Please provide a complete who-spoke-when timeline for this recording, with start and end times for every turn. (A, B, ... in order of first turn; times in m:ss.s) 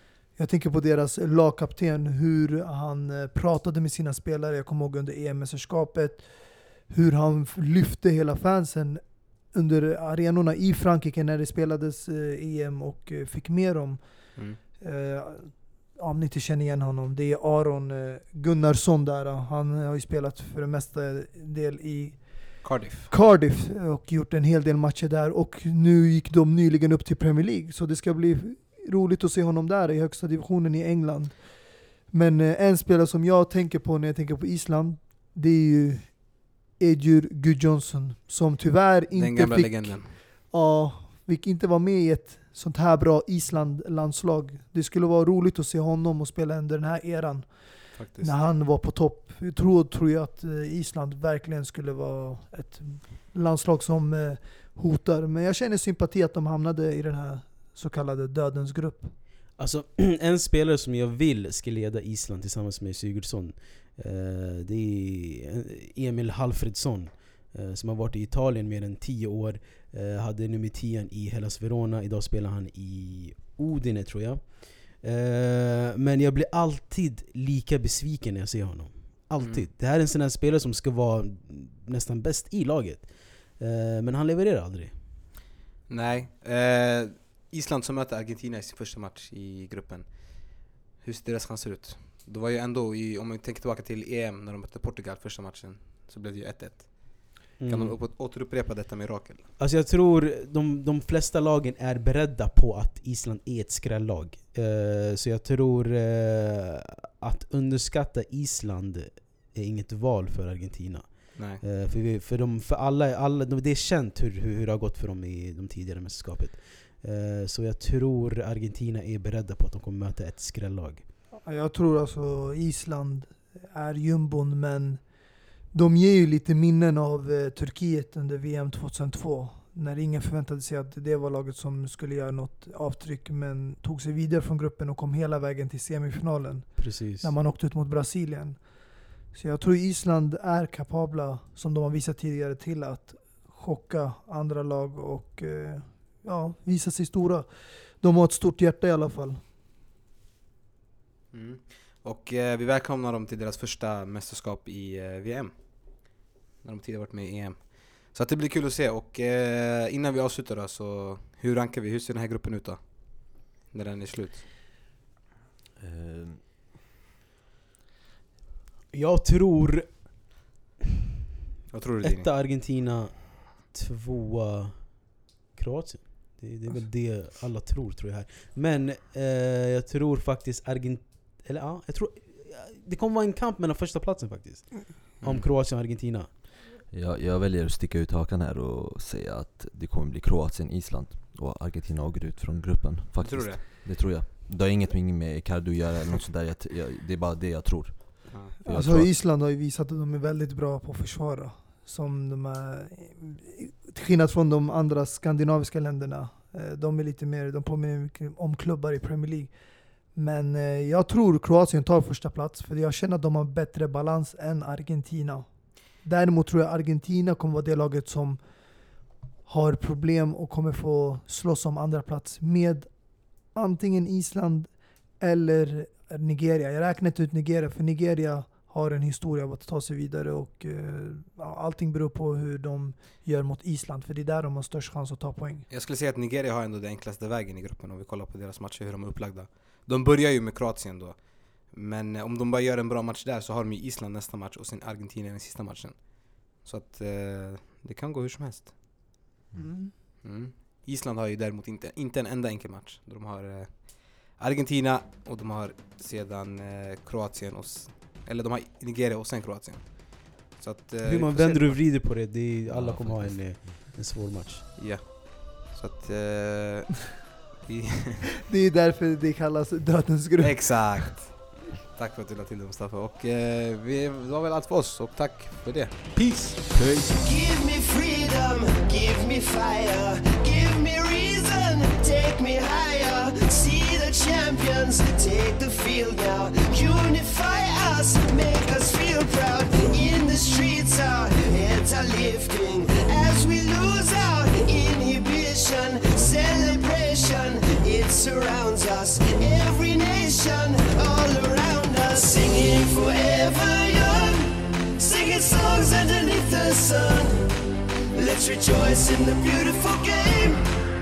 0:00.3-0:59.1 A
0:22.6-0:23.1 B
0:39.1-0:40.2 B
0:47.9-0:48.3 B
0:59.6-1:25.0 C
1:19.4-1:19.7 B
1:25.9-1:39.5 B
1:37.6-1:38.0 C
1:39.6-2:01.0 C
1:51.4-1:51.6 B
2:01.3-2:05.0 A
2:05.7-2:18.7 A
2:16.8-2:17.3 C
2:19.3-2:29.4 A
2:31.3-2:44.4 B
2:45.8-2:46.4 D
2:48.9-2:50.3 C
2:51.7-2:52.3 B
2:52.0-3:06.3 C
3:05.2-3:05.5 B
3:06.9-3:19.1 D
3:13.2-3:13.6 B
3:18.6-3:29.5 A
3:30.1-3:38.4 A
3:39.4-3:42.9 A
3:43.5-3:55.6 A
3:55.7-4:08.8 B
4:10.2-4:22.3 B
4:21.0-4:24.7 C
4:22.7-4:23.7 D
4:23.1-4:23.4 B
4:24.8-4:28.3 B
4:28.5-4:31.1 A
4:30.4-4:36.6 B
4:36.7-4:37.1 D
4:37.1-5:07.5 E
5:08.1-5:10.6 E